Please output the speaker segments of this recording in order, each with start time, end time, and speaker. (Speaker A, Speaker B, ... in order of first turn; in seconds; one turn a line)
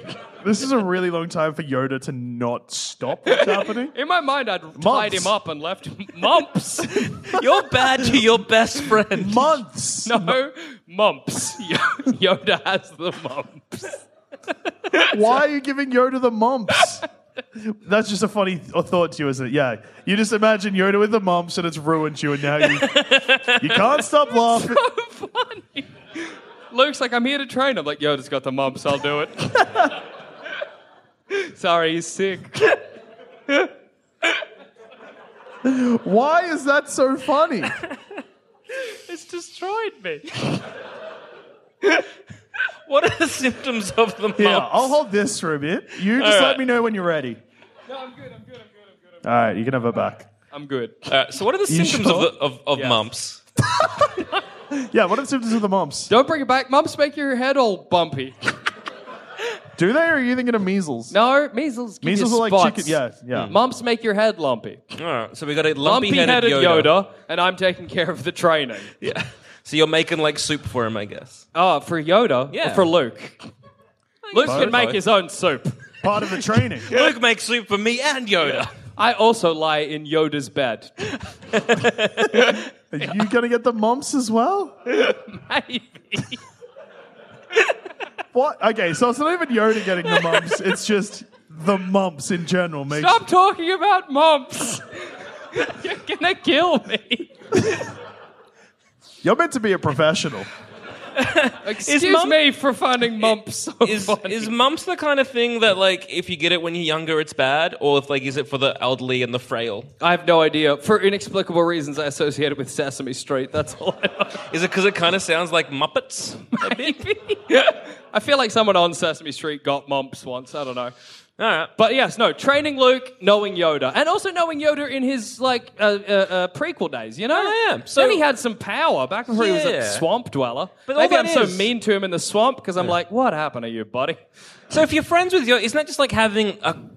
Speaker A: 0.4-3.9
Speaker B: 3.9-7.1
Speaker A: 4.8-5.3
Speaker C: 7.2-9.6
Speaker A: 9.1-10.4
Speaker B: 10.0-14.0
Speaker A: 15.1-23.1
Speaker C: 22.9-23.6
Speaker A: 23.6-24.8
Speaker B: 24.3-25.9
Speaker B: 26.7-29.7
Speaker B: 31.3-32.8
Speaker A: 35.6-37.8
Speaker B: 39.1-40.3
Speaker C: 42.9-45.0
Speaker A: 44.4-47.4
Speaker C: 46.0-46.6
Speaker B: 47.9-48.5
Speaker A: 49.2-50.2
Speaker B: 50.5-51.1
Speaker C: 51.1-53.4
Speaker A: 51.7-52.3
Speaker B: 52.7-53.0
Speaker A: 53.8-54.0
Speaker A: 54.7-56.1
Speaker B: 56.1-58.4
Speaker A: 59.8-61.1
Speaker B: 61.1-64.8
Speaker A: 62.0-63.5
Speaker C: 65.0-66.9
Speaker B: 65.8-68.9
Speaker C: 69.0-71.5
Speaker B: 71.5-73.4
Speaker C: 72.5-72.9
Speaker C: 74.2-75.0
Speaker B: 74.3-75.7
Speaker A: 74.4-74.8
Speaker A: 76.0-77.0
Speaker C: 76.8-78.7
Speaker B: 79.0-80.9
Speaker C: 81.2-82.6
Speaker A: 82.9-84.7
Speaker B: 85.0-86.4
Speaker A: 88.3-93.2
Speaker B: 92.9-97.3
Speaker A: 99.2-100.5
Speaker C: 101.2-102.4
Speaker B: 101.6-104.5
Speaker C: 103.2-109.9
Speaker B: 110.0-114.4
Speaker C: 114.5-117.0
Speaker B: 116.6-120.9
Speaker C: 121.4-121.7
Speaker B: 121.8-134.2
Speaker C: 127.3-128.2
Speaker C: 129.3-130.0
Speaker C: 130.9-131.7
Speaker C: 134.7-136.8